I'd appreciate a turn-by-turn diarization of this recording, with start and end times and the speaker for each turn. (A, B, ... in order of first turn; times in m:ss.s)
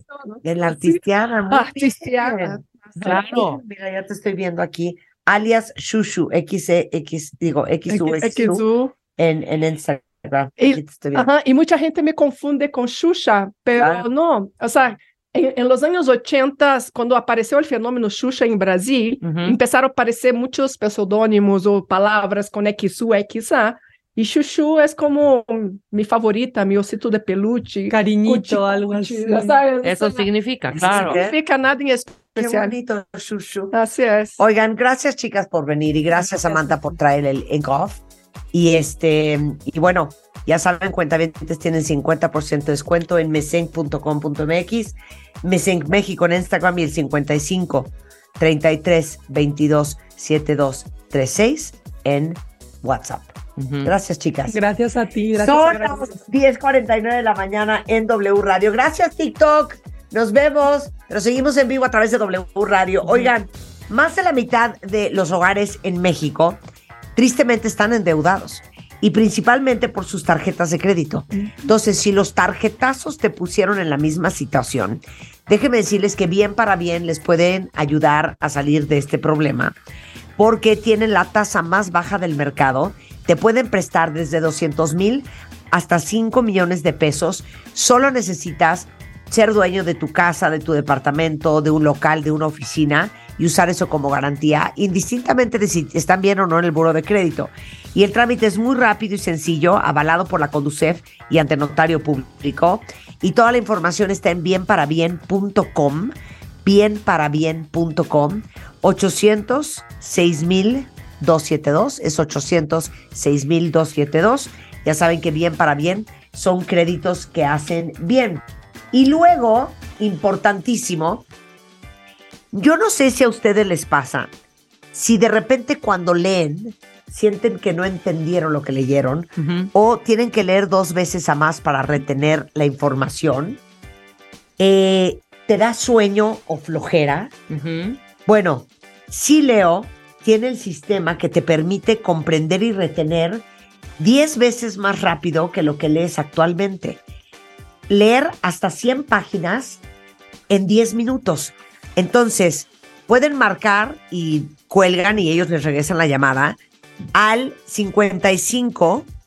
0:00.3-0:01.0 A
0:00.4-0:11.3 B
0:01.5-0:02.6 A
0:03.0-0:03.6 C
0:07.9-0:08.9 A
0:10.6-0:32.7 A
0:13.8-0:14.0 B
0:19.2-0:19.6 C
0:27.9-0:29.6 D
0:29.8-0:31.2 C
0:30.7-0:31.4 B
0:32.4-0:33.8 B
0:33.7-0:34.4 A
0:34.4-0:38.0 B
0:36.5-0:36.8 A
0:38.5-0:53.3 B
0:53.6-0:53.9 C
0:53.8-0:54.6 B
0:54.5-0:56.1 D
0:55.4-1:06.6 B
1:07.2-1:19.7 B
1:11.4-1:11.7 D
1:20.4-2:01.3 B
2:02.5-2:04.3 B
2:04.9-2:13.6 B
2:09.4-2:09.7 C
2:14.6-2:17.4 B
2:17.5-2:18.0 C
2:18.3-2:23.4 B
2:24.0-2:27.0 B
2:27.9-2:29.8 B
2:30.5-2:36.6 B
2:37.1-2:39.1 B